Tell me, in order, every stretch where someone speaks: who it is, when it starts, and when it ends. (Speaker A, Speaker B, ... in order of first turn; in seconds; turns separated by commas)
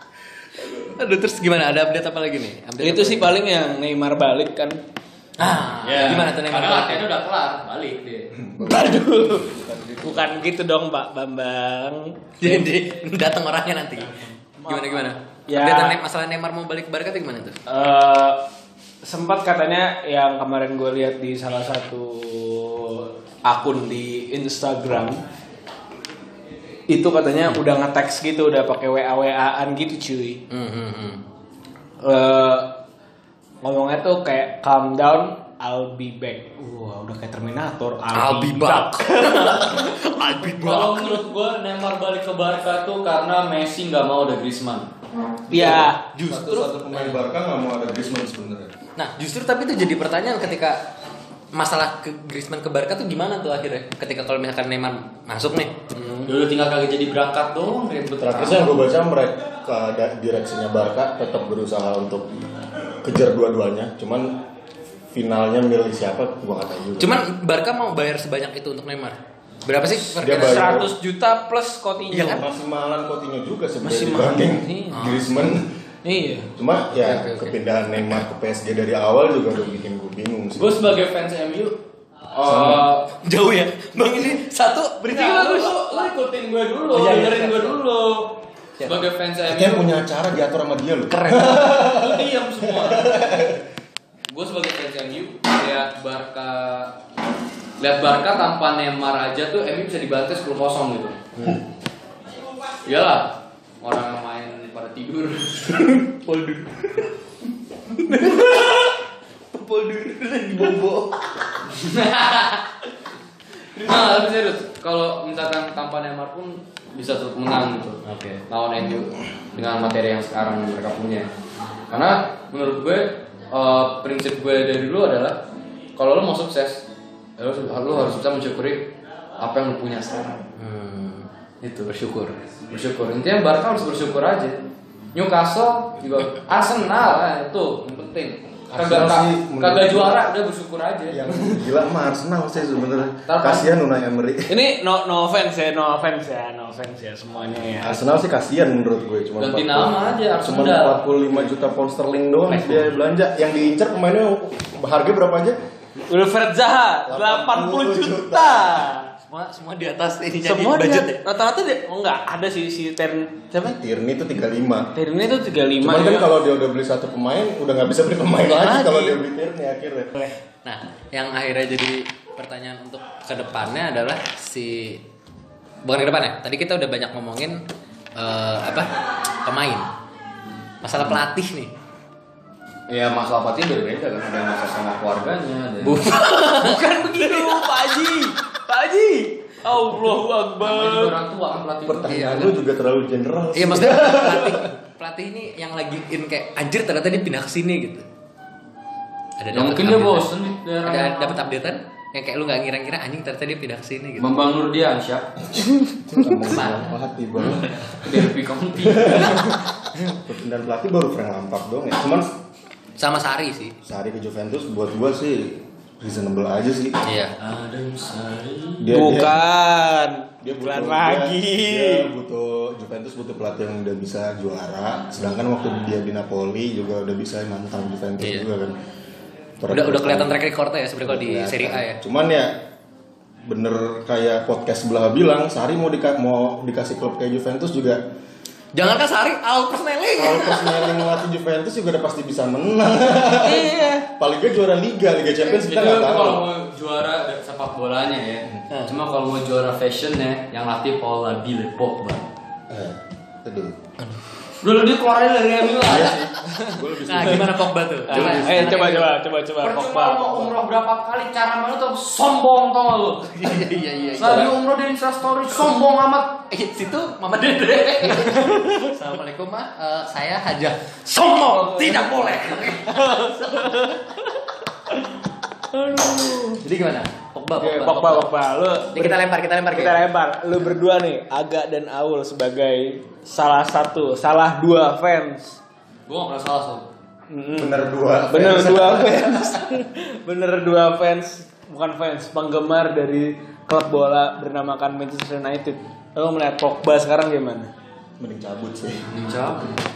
Speaker A: 0.6-0.9, Speaker B: 1.0-3.3, Speaker C: 2.8-4.8, Speaker B: 5.4-7.1, Speaker D: 5.8-8.3, Speaker A: 8.3-10.4, Speaker C: 8.6-9.5, Speaker C: 10.0-12.7, Speaker B: 12.4-17.6, Speaker C: 14.0-16.0, Speaker C: 17.7-18.4, Speaker C: 19.0-25.2, Speaker C: 26.9-30.4, Speaker B: 30.5-31.2, Speaker C: 32.0-32.8, Speaker C: 33.6-40.0, Speaker B: 38.1-41.2, Speaker D: 40.6-44.9, Speaker A: 45.5-48.7, Speaker C: 45.5-46.1, Speaker B: 46.1-47.1, Speaker D: 46.2-46.7, Speaker B: 49.0-50.9, Speaker B: 51.5-56.2, Speaker D: 56.2-58.8, Speaker A: 58.2-62.4, Speaker A: 63.0-64.4, Speaker A: 65.1-67.2, Speaker B: 67.0-70.9, Speaker A: 70.1-70.9, Speaker C: 70.2-72.4, Speaker B: 72.1-72.4, Speaker A: 72.2-75.7, Speaker C: 73.8-75.2, Speaker B: 74.9-75.3, Speaker C: 76.0-76.5, Speaker A: 76.5-80.9, Speaker B: 77.0-77.5, Speaker D: 80.5-81.8, Speaker D: 82.3-83.1, Speaker A: 82.4-82.9, Speaker B: 83.1-86.1, Speaker D: 85.1-89.9, Speaker B: 86.9-87.8, Speaker A: 89.5-93.6, Speaker B: 91.1-91.8, Speaker D: 91.7-93.3, Speaker D: 94.3-96.9, Speaker D: 97.8-101.2, Speaker D: 102.8-105.8, Speaker B: 105.8-107.1, Speaker B: 108.0-108.9, Speaker B: 109.5-111.2, Speaker D: 111.6-112.7, Speaker D: 113.7-121.3, Speaker B: 118.0-118.4, Speaker D: 121.9-125.4, Speaker D: 126.0-126.8, Speaker D: 127.4-130.4, Speaker B: 130.6-131.3, Speaker D: 131.6-131.9, Speaker B: 131.8-132.3, Speaker D: 132.7-141.3, Speaker A: 138.7-140.2, Speaker A: 141.1-144.6, Speaker D: 143.3-143.7, Speaker C: 144.5-148.0, Speaker A: 147.8-155.6, Speaker D: 149.4-151.0, Speaker B: 152.5-152.8, Speaker C: 156.1-159.1, Speaker A: 157.1-158.9, Speaker B: 159.3-161.2, Speaker C: 160.4-163.7, Speaker A: 163.6-164.9, Speaker C: 164.9-166.3, Speaker A: 165.8-170.1, Speaker B: 168.5-169.2, Speaker B: 170.6-175.0, Speaker B: 175.8-177.6, Speaker B: 178.1-178.9, Speaker B: 179.4-179.9, Speaker B: 180.8-181.7, Speaker D: 182.9-186.0, Speaker B: 185.8-187.7, Speaker C: 186.3-191.2, Speaker D: 190.6-192.6, Speaker A: 191.8-194.7, Speaker B: 192.1-192.5, Speaker B: 193.5-198.0, Speaker B: 199.4-200.3, Speaker D: 199.5-201.5, Speaker B: 200.8-204.3, Speaker D: 204.2-205.3, Speaker A: 205.4-208.3, Speaker B: 206.4-206.9, Speaker D: 208.0-209.6, Speaker A: 208.8-212.3, Speaker B: 213.0-213.8, Speaker A: 213.8-217.0, Speaker B: 217.0-217.3, Speaker D: 217.4-218.8, Speaker A: 218.8-219.4, Speaker C: 218.9-222.1, Speaker A: 220.4-228.8, Speaker B: 228.2-228.4, Speaker A: 229.6-230.4, Speaker B: 229.7-232.0, Speaker A: 231.0-232.6, Speaker A: 233.4-238.0, Speaker B: 238.7-241.0, Speaker A: 240.2-246.4, Speaker C: 243.4-244.0, Speaker D: 245.4-252.3, Speaker A: 252.7-253.8, Speaker D: 254.6-256.2, Speaker A: 255.8-258.7, Speaker B: 256.9-259.1, Speaker C: 258.1-260.5, Speaker D: 259.6-263.5, Speaker B: 263.3-264.6, Speaker D: 264.2-266.4, Speaker B: 266.5-273.9, Speaker D: 267.6-268.4, Speaker C: 271.6-271.9, Speaker C: 272.9-274.1, Speaker C: 275.7-276.6, Speaker B: 276.6-278.3, Speaker C: 277.6-285.6, Speaker B: 278.9-280.1, Speaker D: 286.1-286.9, Speaker C: 287.3-297.7, Speaker A: 287.6-289.6, Speaker A: 298.2-299.1, Speaker D: 299.1-299.8